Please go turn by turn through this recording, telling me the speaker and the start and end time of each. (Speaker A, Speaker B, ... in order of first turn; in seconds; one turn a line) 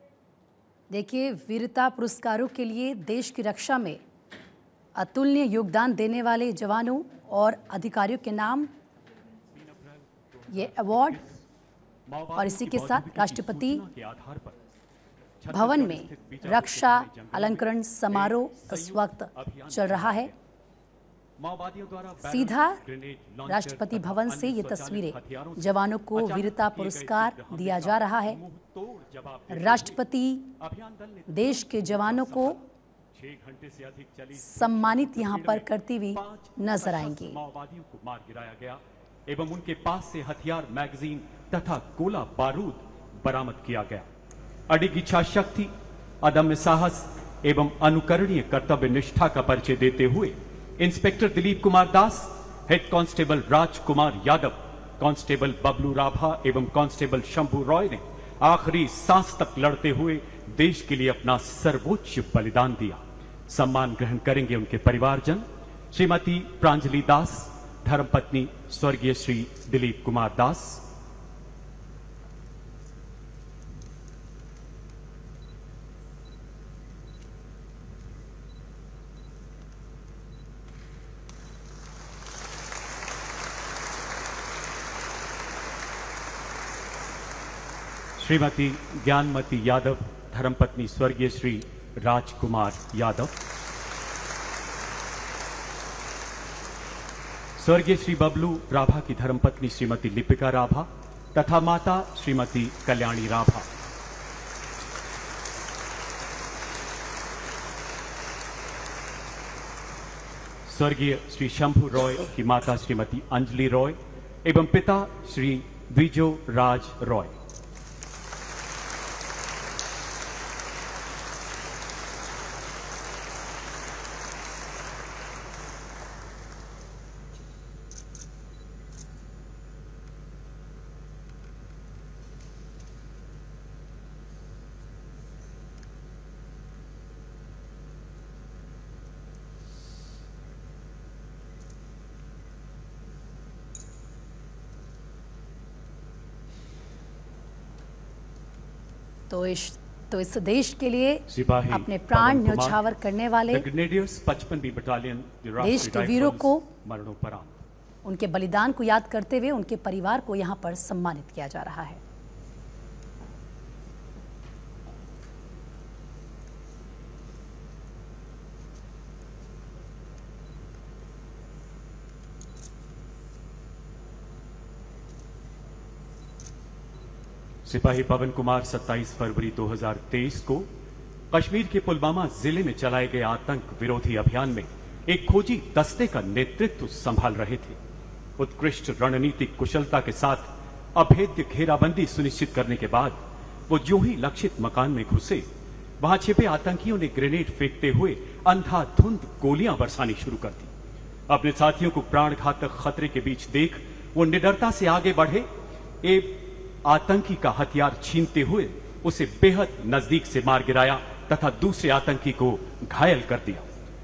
Speaker A: 0.9-4.0
Speaker A: 5.0-8.7
Speaker B: 9.5-11.4
Speaker A: 10.5-11.2
Speaker B: 12.1-14.6
Speaker A: 12.3-13.8
Speaker B: 15.4-20.4
Speaker A: 15.5-20.3
Speaker B: 21.4-30.0
Speaker A: 22.2-22.8
Speaker A: 23.4-28.4
Speaker A: 29.5-30.5
Speaker B: 30.6-32.6
Speaker A: 31.3-32.6
Speaker B: 33.1-44.1
Speaker A: 34.3-37.4
Speaker B: 44.7-45.7
Speaker B: 46.2-70.8
Speaker B: 88.2-93.4
Speaker B: 97.6-103.7
Speaker B: 110.7-117.3
Speaker A: 149.3-153.7
Speaker B: 151.3-152.8
Speaker B: 153.5-157.7
Speaker A: 155.6-156.7
Speaker A: 158.0-162.0
Speaker B: 177.7-180.7
Speaker B: 181.3-187.8
Speaker B: 188.4-195.5
Speaker B: 196.0-200.7
Speaker B: 201.3-205.5
Speaker B: 206.0-213.7